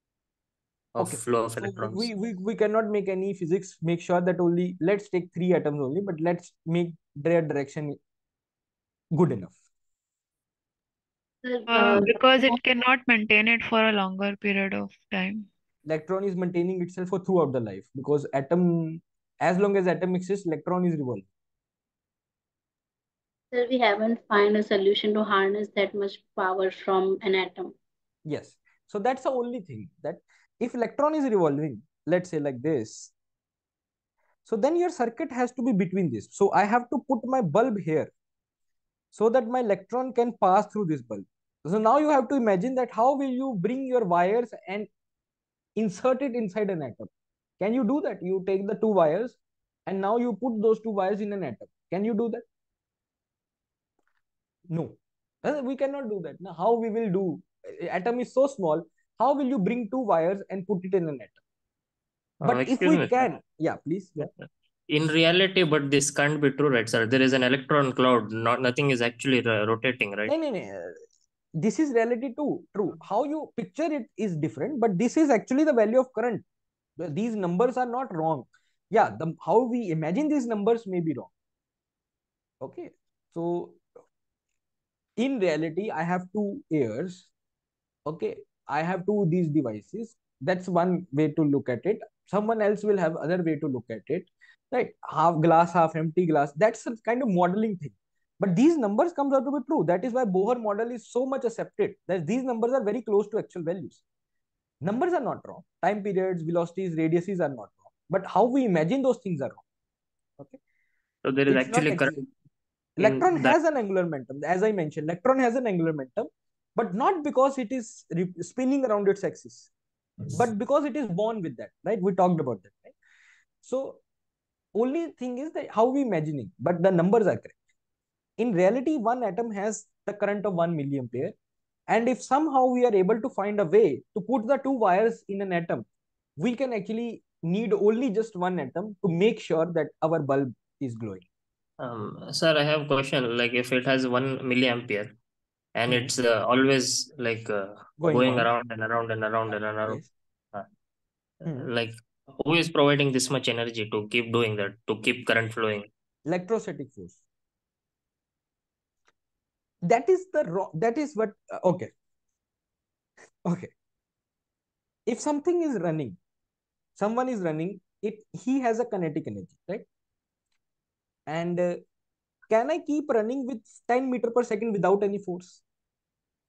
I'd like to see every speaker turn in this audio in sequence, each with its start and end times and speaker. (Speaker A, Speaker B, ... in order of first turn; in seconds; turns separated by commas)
Speaker A: 0.9-2.1, Speaker B: 1.0-8.0, Speaker B: 9.1-9.6, Speaker C: 11.4-12.6, Speaker D: 11.7-15.5, Speaker B: 15.8-21.2, Speaker C: 23.5-27.7, Speaker B: 28.2-33.1, Speaker B: 34.5-38.1, Speaker B: 39.1-44.9, Speaker B: 45.8-52.4, Speaker B: 54.7-61.4, Speaker A: 62.4-63.3, Speaker B: 62.4-64.3, Speaker A: 64.2-70.3, Speaker B: 70.3-71.0, Speaker B: 71.6-76.4, Speaker B: 77.0-81.3, Speaker B: 82.6-83.8, Speaker B: 85.2-87.3, Speaker B: 88.0-104.0, Speaker B: 104.8-109.6, Speaker A: 111.2-112.2, Speaker B: 111.5-112.2, Speaker B: 113.0-119.7, Speaker A: 113.0-113.5, Speaker B: 120.3-122.9, Speaker B: 123.6-124.0, Speaker B: 124.7-127.5, Speaker B: 128.4-131.3, Speaker B: 131.9-135.8, Speaker B: 136.4-141.2, Speaker A: 141.8-145.2, Speaker A: 145.8-150.0, Speaker B: 148.0-148.5, Speaker B: 149.5-150.1, Speaker A: 151.4-155.9, Speaker B: 156.2-157.2, Speaker B: 159.8-161.9, Speaker B: 163.4-163.7, Speaker B: 165.1-166.2, Speaker B: 166.9-169.8, Speaker B: 171.3-171.8, Speaker B: 172.5-175.6